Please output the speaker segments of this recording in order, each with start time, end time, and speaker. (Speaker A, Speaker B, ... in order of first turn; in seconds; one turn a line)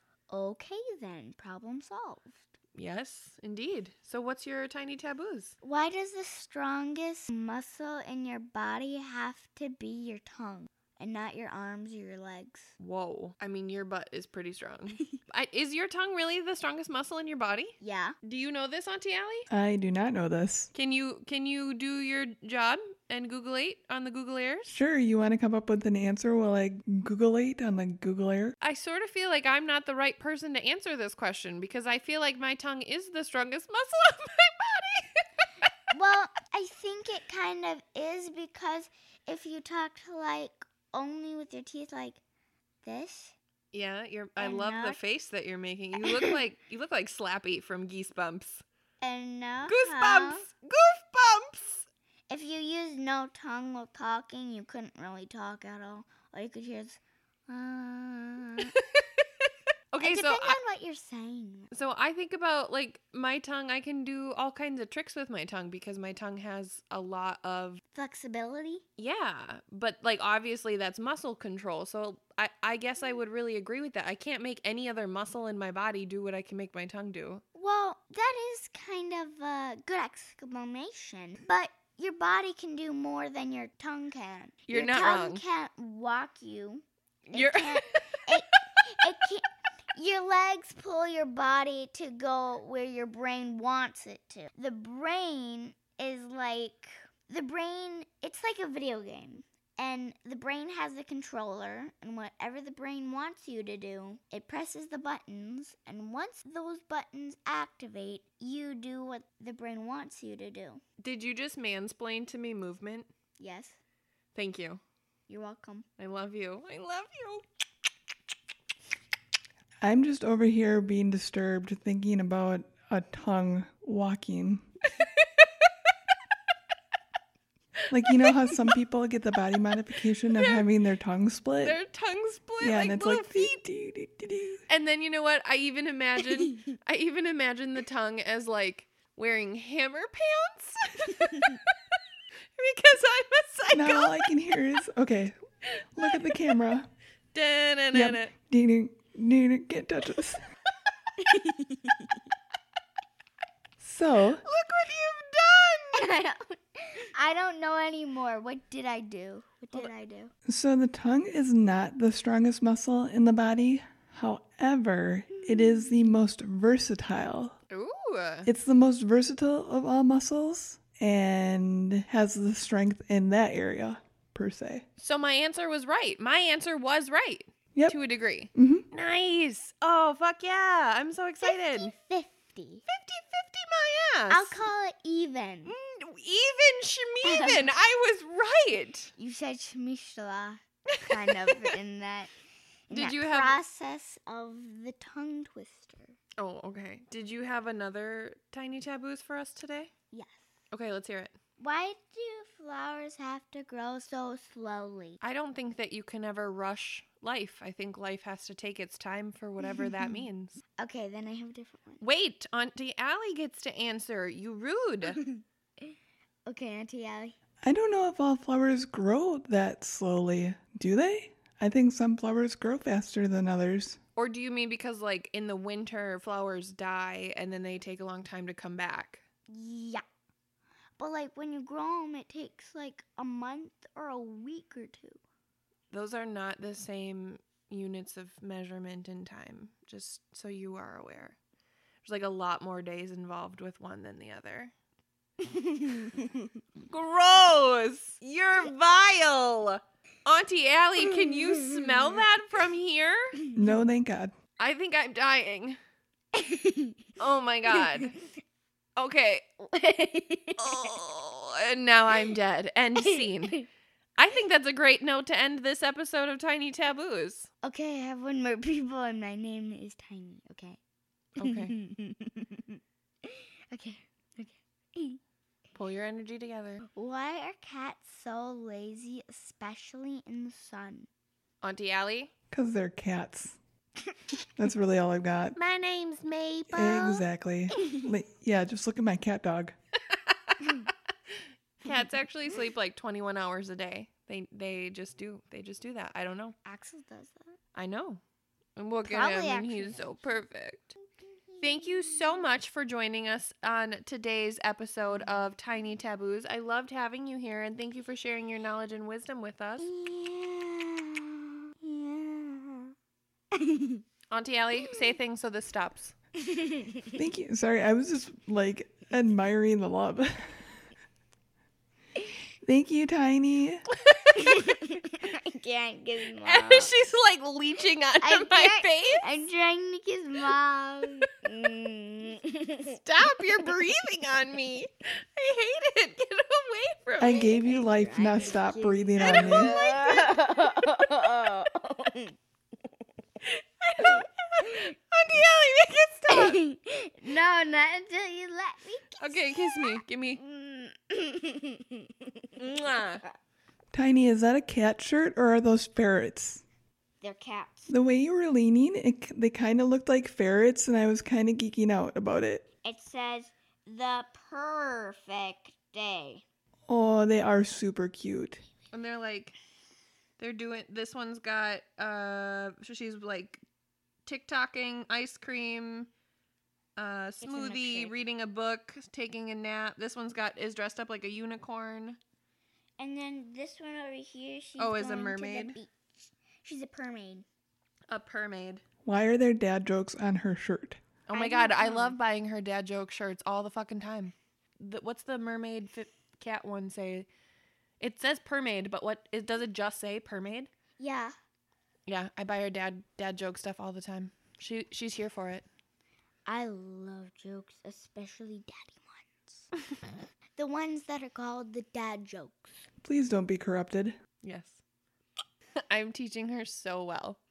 Speaker A: 0.3-2.5
Speaker B: 2.7-5.5
Speaker A: 5.6-12.7
Speaker B: 12.8-19.5
Speaker A: 17.8-18.1
Speaker C: 19.5-20.7
Speaker B: 20.7-24.8
Speaker C: 24.7-28.5
Speaker B: 28.6-35.2
Speaker A: 35.9-42.2
Speaker A: 42.8-43.3
Speaker B: 43.7-48.6
Speaker A: 44.4-45.0
Speaker A: 49.0-50.4
Speaker B: 49.6-51.9
Speaker A: 52.3-58.7
Speaker B: 59.9-60.6
Speaker A: 60.0-61.7
Speaker B: 61.7-67.8
Speaker A: 67.9-68.8
Speaker B: 69.0-77.4
Speaker A: 77.5-110.8
Speaker B: 84.7-85.4
Speaker B: 87.3-88.2
Speaker B: 111.0-113.1
Speaker A: 113.4-113.8
Speaker B: 114.3-114.8
Speaker A: 115.3-115.9
Speaker B: 116.0-117.4
Speaker C: 119.8-124.6
Speaker B: 125.0-125.5
Speaker C: 127.9-131.8
Speaker B: 130.3-130.7
Speaker B: 131.6-133.6
Speaker C: 132.6-134.6
Speaker B: 134.7-141.6
Speaker B: 142.6-144.3
Speaker C: 143.7-145.4
Speaker C: 145.9-146.9
Speaker B: 147.3-148.3
Speaker C: 147.9-150.4
Speaker A: 151.2-152.1
Speaker C: 153.8-154.4
Speaker B: 154.4-156.1
Speaker A: 155.9-160.3
Speaker C: 160.4-167.5
Speaker B: 167.7-168.5
Speaker C: 168.4-174.8
Speaker B: 175.0-181.9
Speaker C: 178.5-178.8
Speaker A: 181.4-182.8
Speaker B: 182.9-184.6
Speaker A: 184.3-185.7
Speaker B: 185.7-189.1
Speaker A: 187.2-187.7
Speaker A: 189.2-192.3
Speaker A: 192.9-196.2
Speaker B: 192.9-193.6
Speaker B: 196.4-199.9
Speaker A: 200.1-200.4
Speaker B: 200.7-201.3
Speaker A: 201.6-205.2
Speaker B: 205.2-210.6
Speaker A: 209.6-210.2
Speaker A: 210.8-212.0
Speaker B: 212.0-215.2
Speaker A: 215.1-215.4
Speaker A: 216.4-217.3
Speaker C: 217.6-224.0
Speaker B: 224.2-229.2
Speaker A: 229.5-230.0
Speaker A: 231.0-235.2
Speaker B: 235.9-241.3
Speaker B: 242.0-244.7
Speaker A: 245.5-246.4
Speaker B: 246.8-253.4
Speaker C: 253.5-254.3
Speaker B: 254.6-255.8
Speaker A: 256.3-257.1
Speaker B: 257.2-258.1
Speaker A: 257.7-258.1
Speaker B: 258.9-259.6
Speaker A: 259.7-260.9
Speaker B: 260.6-263.6
Speaker A: 263.0-263.6
Speaker B: 264.2-267.5
Speaker A: 267.6-270.8
Speaker A: 271.4-275.2
Speaker B: 271.4-271.7
Speaker B: 275.7-276.8
Speaker A: 276.9-281.1
Speaker B: 281.6-282.3
Speaker C: 282.5-283.6
Speaker C: 284.6-285.6
Speaker B: 285.6-287.2
Speaker C: 286.7-289.7
Speaker B: 290.1-290.8
Speaker B: 291.8-296.6
Speaker A: 296.6-297.6
Speaker B: 297.7-298.2
Speaker B: 298.8-300.8
Speaker A: 299.0-300.2
Speaker A: 301.2-302.4
Speaker B: 301.6-309.9
Speaker A: 309.8-312.9
Speaker A: 313.5-314.0
Speaker B: 314.3-316.1
Speaker A: 316.4-317.1
Speaker C: 317.1-320.6
Speaker C: 322.6-323.8
Speaker A: 324.3-326.9
Speaker B: 326.4-329.2
Speaker A: 328.2-333.0
Speaker B: 332.9-337.4
Speaker C: 337.2-339.8
Speaker A: 337.2-342.4
Speaker B: 339.2-340.3
Speaker B: 343.4-346.6
Speaker A: 346.3-352.6
Speaker B: 349.2-350.4
Speaker B: 352.6-353.2
Speaker C: 353.9-356.6
Speaker A: 357.2-357.9
Speaker C: 357.9-362.6
Speaker A: 362.8-366.4
Speaker C: 366.9-368.6
Speaker B: 368.9-369.5
Speaker B: 370.4-373.6
Speaker B: 374.2-376.1
Speaker B: 376.9-382.2
Speaker A: 377.4-378.2
Speaker A: 383.0-387.4
Speaker B: 384.8-385.8
Speaker B: 388.1-388.8
Speaker C: 389.0-391.0
Speaker B: 391.3-397.3
Speaker A: 391.3-392.2
Speaker B: 398.0-400.7
Speaker A: 401.0-401.3
Speaker B: 402.1-405.6
Speaker A: 406.4-409.7
Speaker A: 410.6-412.9
Speaker C: 413.0-414.1
Speaker B: 414.4-414.8
Speaker B: 415.9-417.4